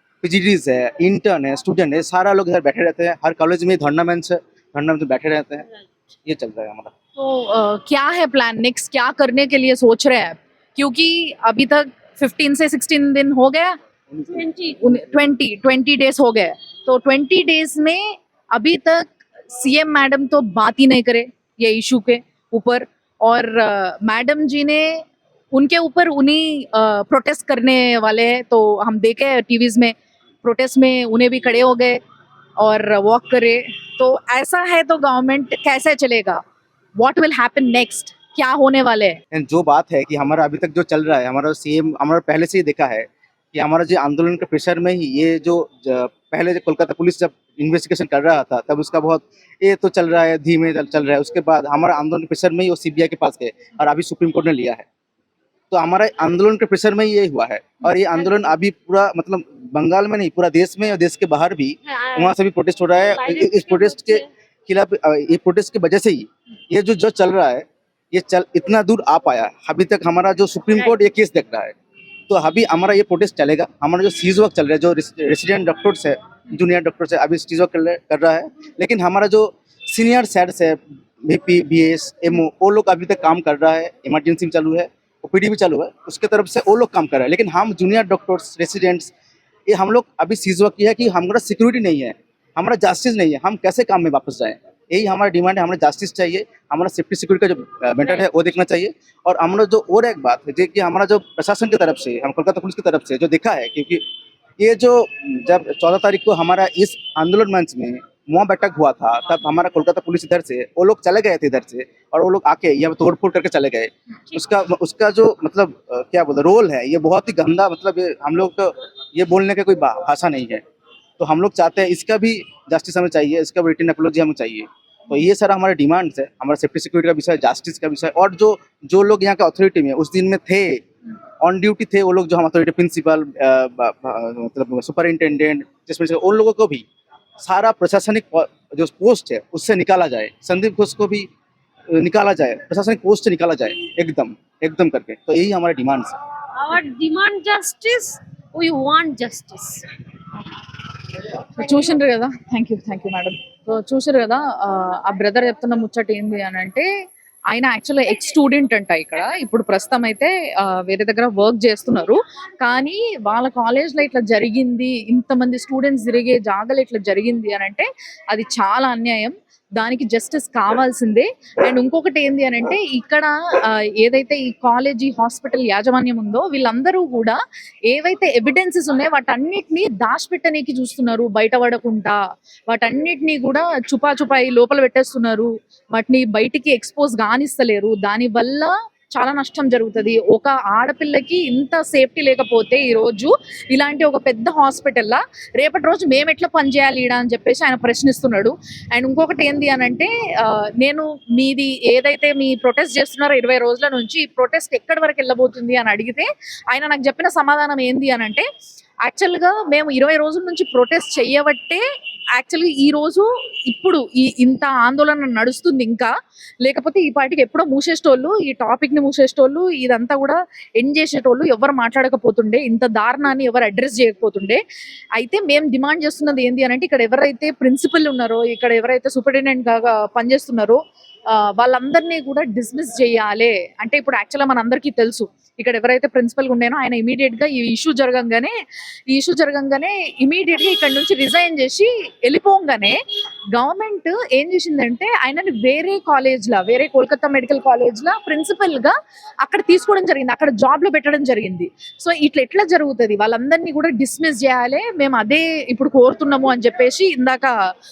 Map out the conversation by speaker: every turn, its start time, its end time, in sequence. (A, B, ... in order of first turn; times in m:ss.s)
0:00.2-0:05.7 A
0:06.2-0:06.9 A
0:07.2-0:13.8 B
0:14.3-0:14.8 C
0:14.8-0:32.0 B
0:32.6-0:36.4 B
0:37.0-0:39.2 B
0:39.3-0:54.8 A
0:55.7-1:11.8 A
1:01.8-1:02.4 C
1:03.0-1:04.3 C
1:12.3-1:29.1 A
1:29.7-1:44.0 A
1:38.0-1:38.3 C
1:44.6-2:00.6 A
2:01.2-2:10.8 A
2:11.4-2:16.8 A
2:17.4-2:21.3 A
2:21.9-2:26.2 A
2:26.5-2:29.9 C
2:31.5-2:36.8 B
2:37.5-3:28.5 B
3:29.0-3:31.8 B
3:32.4-3:44.6 B
3:45.2-3:58.5 B
3:59.1-4:03.0 B
4:03.5-4:17.6 B